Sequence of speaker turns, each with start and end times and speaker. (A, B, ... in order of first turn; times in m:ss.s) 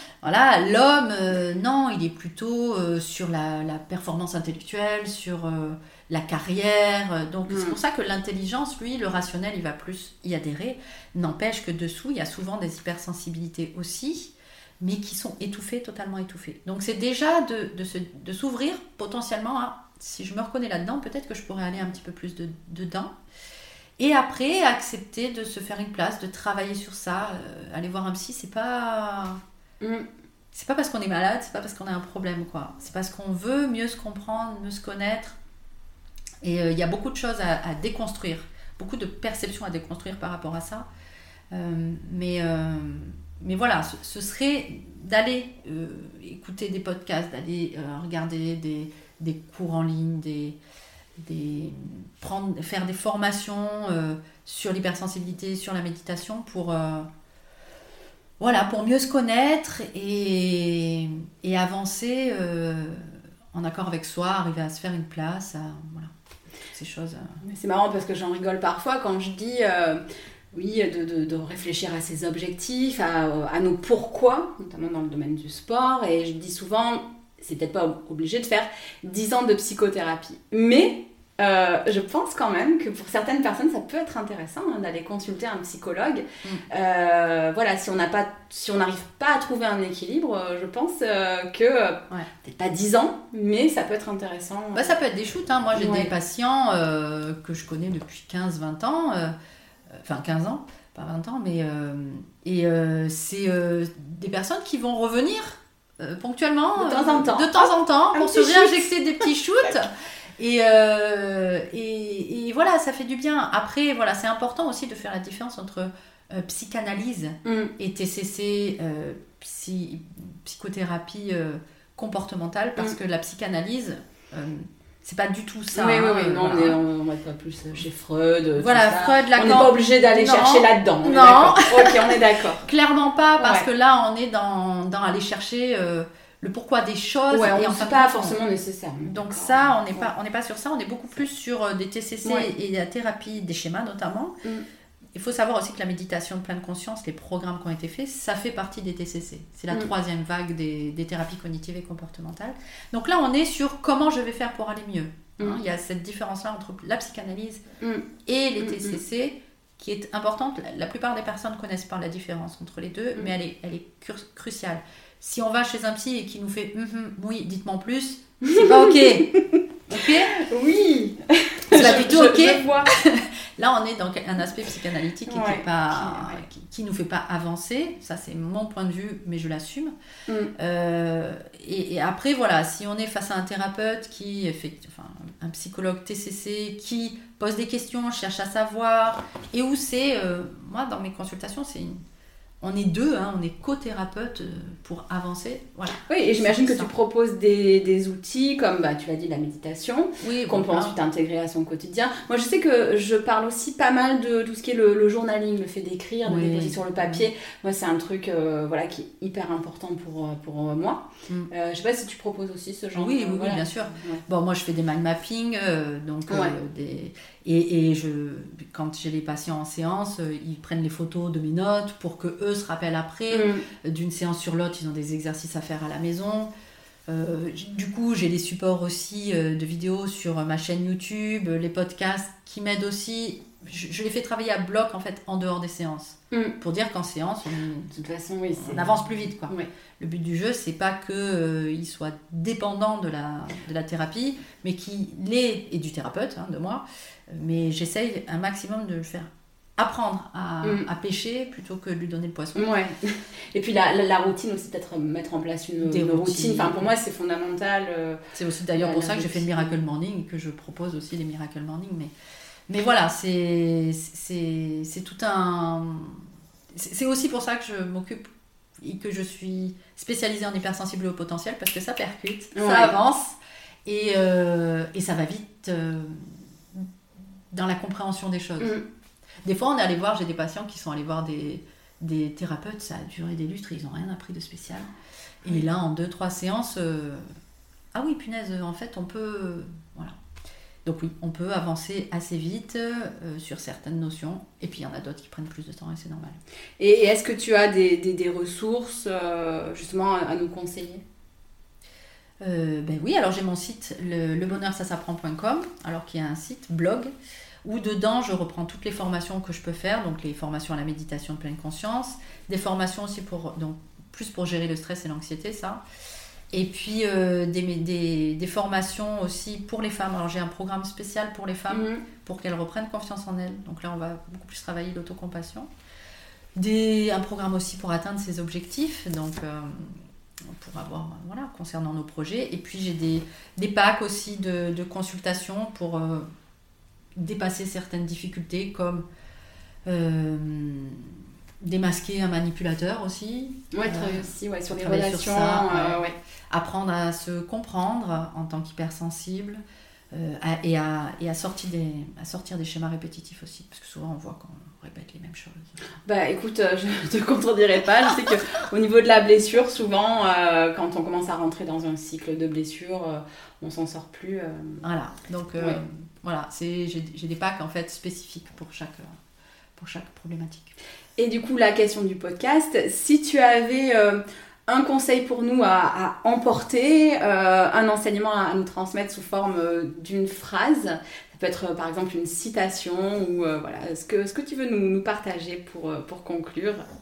0:00.2-0:23.1 A
0:07.5-0:07.8 B
0:24.0-0:29.4 A
0:29.8-0:30.1 B
0:30.5-0:35.4 A
0:36.4-0:40.9 A
0:41.5-0:50.6 A
0:51.2-0:57.1 A
0:58.4-1:06.1 A
1:06.7-1:07.4 A
1:07.4-1:35.0 B
1:34.7-1:39.3 A
1:35.8-1:36.1 B
1:39.9-2:06.8 A
1:46.8-1:48.9 B
1:57.4-1:57.7 B
2:05.7-2:12.6 B
2:08.6-2:18.4 A
2:13.4-2:13.7 B
2:17.3-2:20.1 B
2:19.0-2:24.4 A
2:22.2-2:22.5 B
2:25.1-2:37.6 A
2:37.8-2:38.1 B
2:38.3-2:49.3 A
2:38.6-2:39.0 B
2:48.4-2:49.6 B
2:49.9-2:50.3 A
2:50.3-2:52.9 B
2:51.7-2:59.9 A
2:55.3-2:56.5 B
3:00.6-3:12.0 A
3:12.6-3:16.9 A
3:16.1-3:34.2 B
3:20.2-3:21.0 A
3:26.2-3:27.2 A
3:33.0-3:46.5 A
3:36.3-3:36.5 B
3:43.3-3:43.6 B
3:47.1-3:57.9 A
3:57.9-3:58.9 B
3:58.6-4:12.7 A
4:12.6-4:18.2 B
4:15.8-4:16.9 A
4:18.4-4:22.1 A
4:18.8-4:19.8 B
4:22.7-4:28.3 A
4:28.8-4:36.9 A
4:32.6-4:33.0 B
4:37.5-4:38.8 A
4:39.4-4:44.9 A
4:45.4-4:47.2 A
4:47.9-4:50.2 A
4:50.8-4:56.4 A
4:56.8-5:01.0 B
5:02.4-5:07.1 A
5:07.6-5:15.8 A
5:16.5-5:25.7 A
5:21.7-5:22.0 B
5:26.6-5:36.3 A
5:37.2-5:39.0 A
5:39.9-5:49.6 A
5:43.7-5:46.2 B
5:50.1-5:55.7 A
5:56.0-6:04.8 B
6:04.8-6:09.2 A
6:09.8-6:10.8 A
6:11.2-6:26.8 B